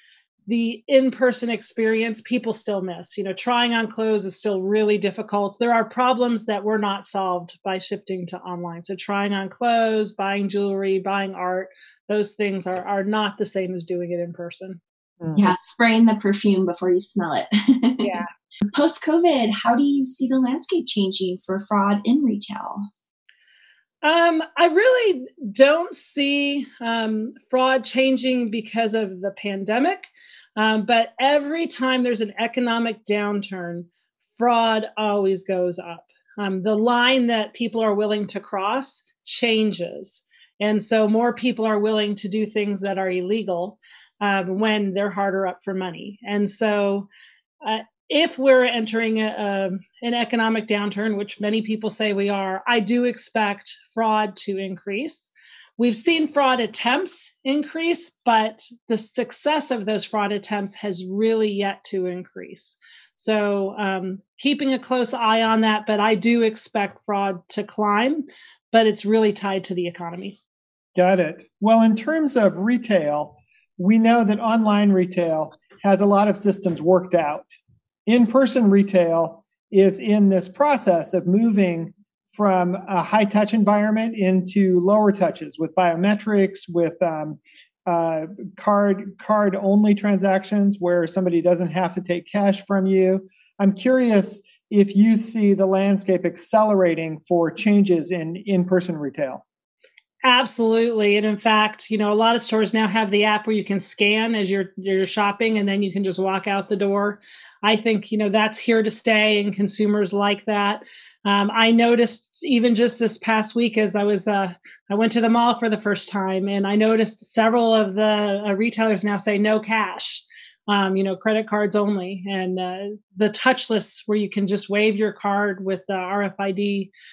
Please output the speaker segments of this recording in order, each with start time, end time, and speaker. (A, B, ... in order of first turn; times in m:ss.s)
0:00.5-0:14.8 A
0:15.2-0:15.5 B
0:15.4-0:22.8 C
0:18.0-0:18.2 A
0:24.0-0:47.1 A
0:47.6-1:10.4 A
1:11.0-1:17.5 B
1:18.1-1:39.4 B
1:40.2-2:06.9 A